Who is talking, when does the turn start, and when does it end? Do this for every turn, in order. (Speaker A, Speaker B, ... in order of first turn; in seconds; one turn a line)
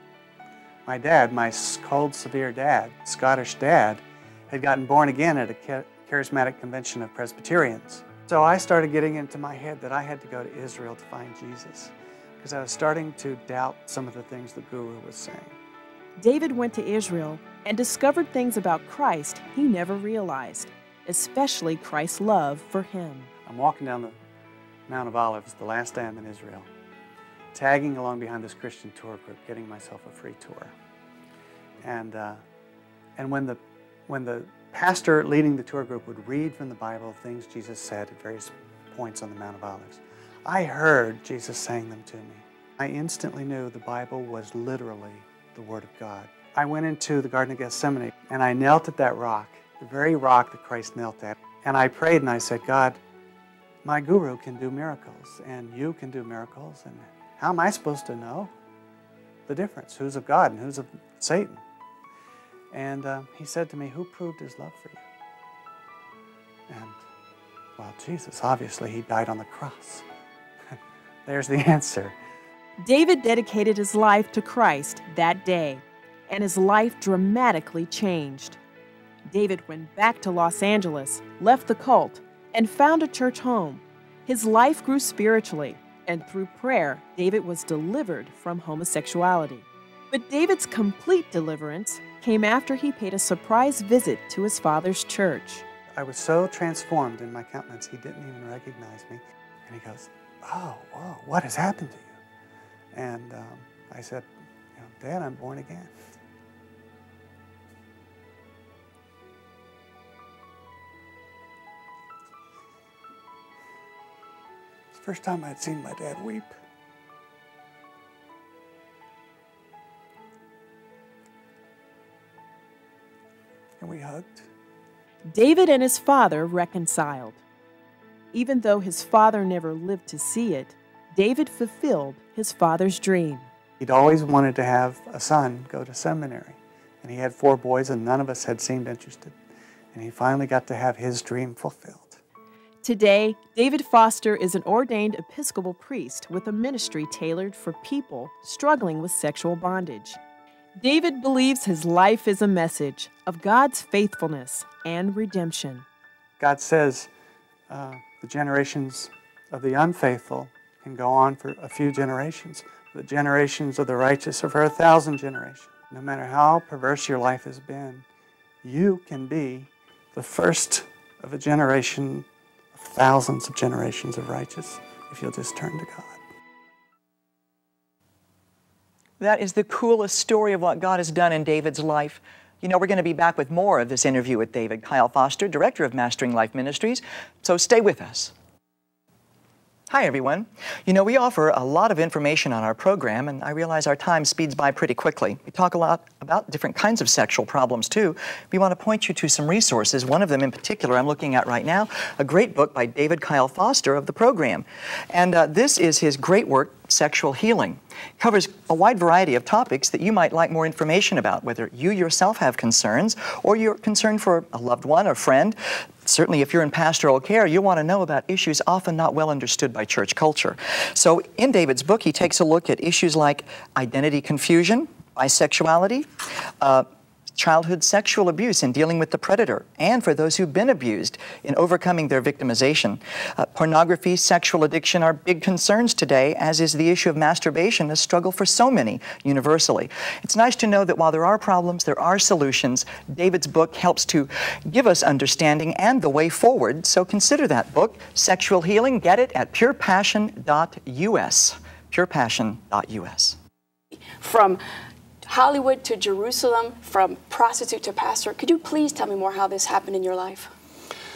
Speaker A: 0.9-15.6
Speaker B: 16.2-23.3
Speaker A: 23.5-24.1
Speaker A: 24.9-26.7
Speaker A: 27.5-30.8
Speaker A: 31.8-32.4
Speaker A: 33.2-53.0
Speaker A: 53.8-58.5
Speaker A: 59.5-61.6
Speaker A: 62.7-65.0
Speaker A: 66.7-67.0
Speaker A: 67.8-70.1
Speaker A: 71.3-72.2
Speaker B: 72.8-78.6
Speaker B: 79.3-95.7
Speaker A: 96.0-102.2
Speaker A: 102.9-105.9
Speaker A: 114.9-116.6
Speaker A: 123.8-124.5
Speaker B: 125.3-127.4
Speaker B: 128.3-133.5
Speaker A: 133.8-139.3
Speaker A: 139.9-142.2
Speaker B: 142.8-150.2
Speaker B: 150.8-155.8
Speaker A: 156.4-157.1
Speaker A: 157.7-168.1
Speaker A: 168.6-176.2
Speaker C: 179.2-188.3
Speaker C: 189.9-226.1
Speaker C: 226.6-253.4
Speaker D: 254.2-254.6
Speaker D: 255.3-260.5